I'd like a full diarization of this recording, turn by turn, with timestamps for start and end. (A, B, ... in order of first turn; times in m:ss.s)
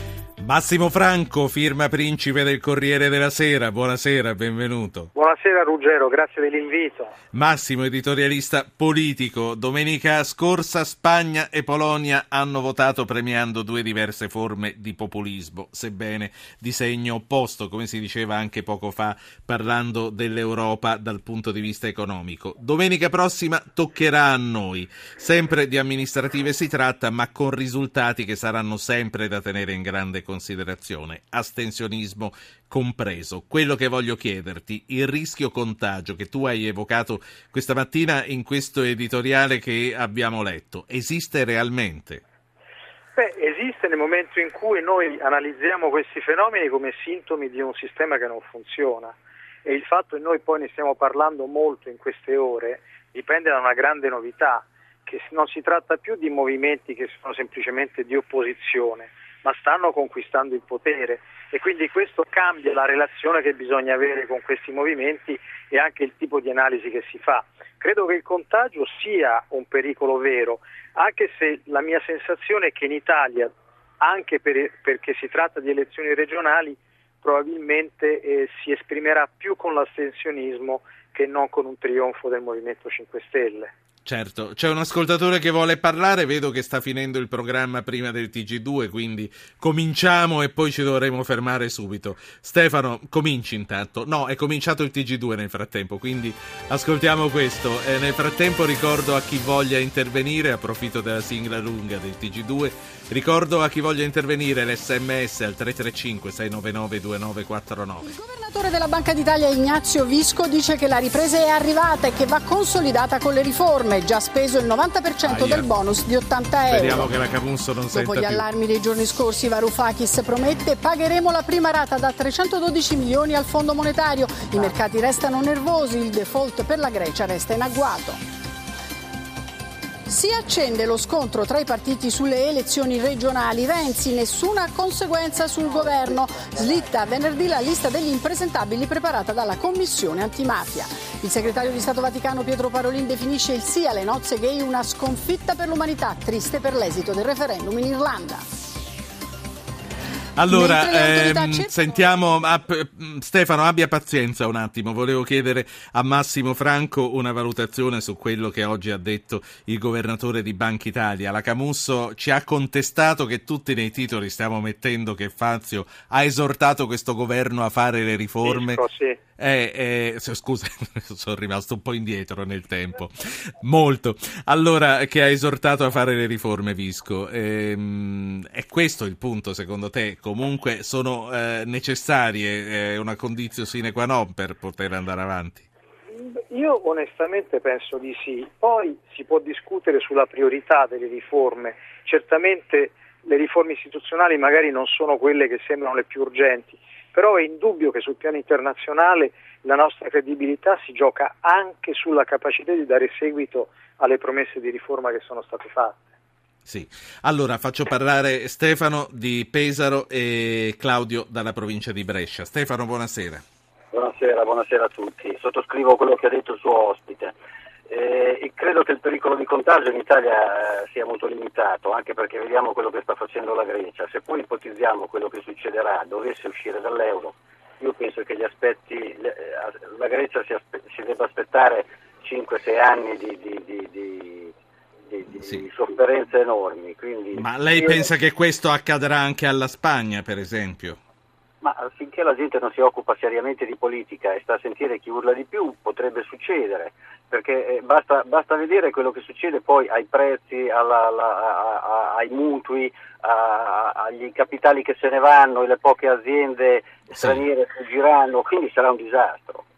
0:00.4-0:05.1 A
0:05.1-0:07.2 B
0:07.3-0:42.2 A
0:43.2-1:23.7 B
1:24.1-1:48.1 A
1:48.0-1:57.2 C
1:55.2-1:55.7 A
1:56.7-1:58.5 A
1:57.9-2:08.2 C
2:10.1-2:28.4 C
2:30.4-2:48.8 A
2:30.5-2:32.4 C
2:48.4-2:49.2 B
2:49.4-3:05.6 A
3:06.2-3:26.1 B
3:26.7-3:33.4 A
3:33.9-3:37.3 D
3:37.9-3:54.5 D
3:55.1-3:58.1 D
3:57.4-4:01.0 A
4:01.6-4:19.6 D